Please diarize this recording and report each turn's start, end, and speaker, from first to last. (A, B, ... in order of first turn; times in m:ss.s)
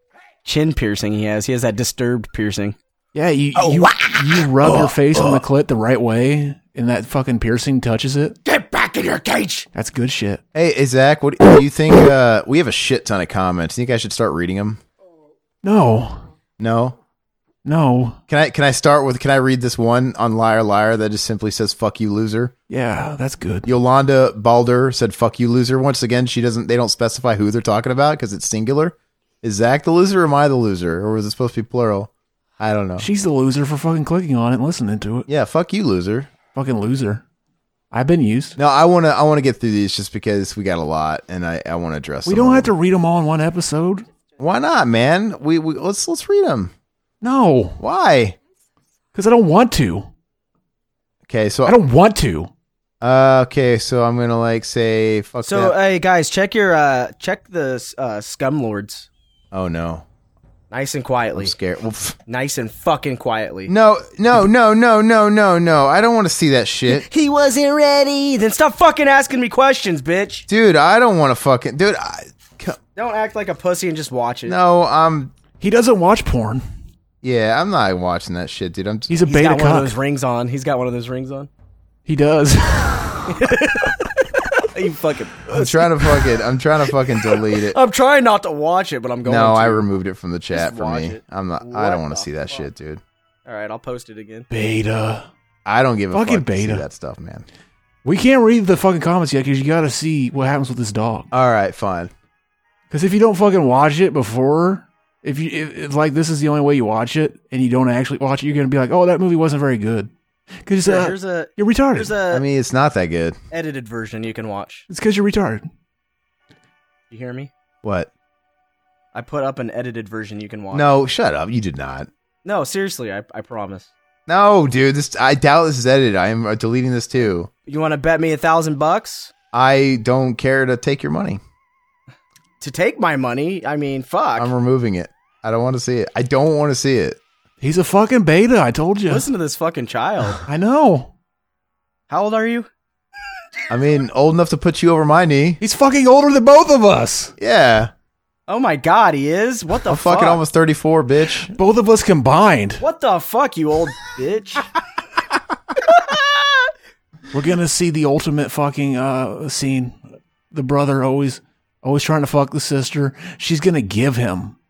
0:00.4-0:02.8 A
0:03.1-0:08.4 B
0:04.6-0:05.4 C
0:08.4-0:09.6 A
0:09.7-0:10.4 B
0:10.5-0:14.8 C
0:15.6-0:16.3 B
0:16.6-0:17.0 C
0:17.6-0:18.2 B
0:18.3-0:22.5 C
0:22.7-0:23.7 B
0:23.6-0:33.1 C
0:33.0-0:35.3 B
0:35.3-0:36.3 C
0:36.5-0:37.2 B
0:37.9-0:38.6 B
0:38.6-0:42.7 C
0:42.2-0:44.0 B
0:44.4-0:46.7 C
0:47.2-0:47.8 B
0:47.8-0:48.4 C
0:49.1-0:50.1 B
0:51.3-0:51.8 C
0:51.6-0:52.5 B
0:53.0-0:55.7 C
0:55.4-0:59.1 A
0:59.5-1:00.0 C
1:00.7-1:01.6 A
1:01.4-1:02.2 C
1:02.3-1:03.7 A
1:03.7-1:07.0 C
1:06.9-1:10.5 A
1:10.5-1:12.8 C
1:13.0-1:14.6 A
1:14.4-1:15.3 C
1:15.6-1:16.6 B
1:17.2-1:19.2 C
1:19.1-1:20.0 B
1:19.2-1:21.5 A
1:22.0-1:23.4 B
1:23.3-1:24.0 A
1:24.6-1:26.1 A
1:25.5-1:27.8 C
1:27.5-1:29.8 A
1:29.2-1:33.0 C
1:30.5-1:32.2 A
1:33.4-1:34.5 A
1:34.5-1:35.2 B
1:35.6-1:37.4 C
1:36.1-1:36.8 B
1:38.0-1:41.3 B
1:41.3-1:42.1 C
1:42.9-1:50.1 B
1:50.6-1:52.2 B
1:50.8-1:52.4 A
1:52.3-1:53.4 C
1:53.5-1:54.8 A
1:54.9-1:55.7 B
1:57.1-1:57.5 A
1:57.8-1:58.1 C
1:59.1-2:00.9 A
2:00.7-2:02.1 C
2:02.4-2:03.9 A
2:04.3-2:07.5 C
2:07.7-2:09.3 A
2:09.5-2:11.4 C
2:12.6-2:14.5 A
2:14.4-2:17.2 C
2:17.6-2:19.3 B
2:19.1-2:20.4 A
2:20.4-2:21.1 B
2:22.1-2:22.7 A
2:23.7-2:25.6 C
2:25.6-2:27.3 B
2:27.4-2:27.9 C
2:28.5-2:30.4 A
2:29.8-2:31.5 C
2:31.5-2:32.8 B
2:32.8-2:34.7 A
2:37.3-2:40.0 B
2:40.5-2:44.6 B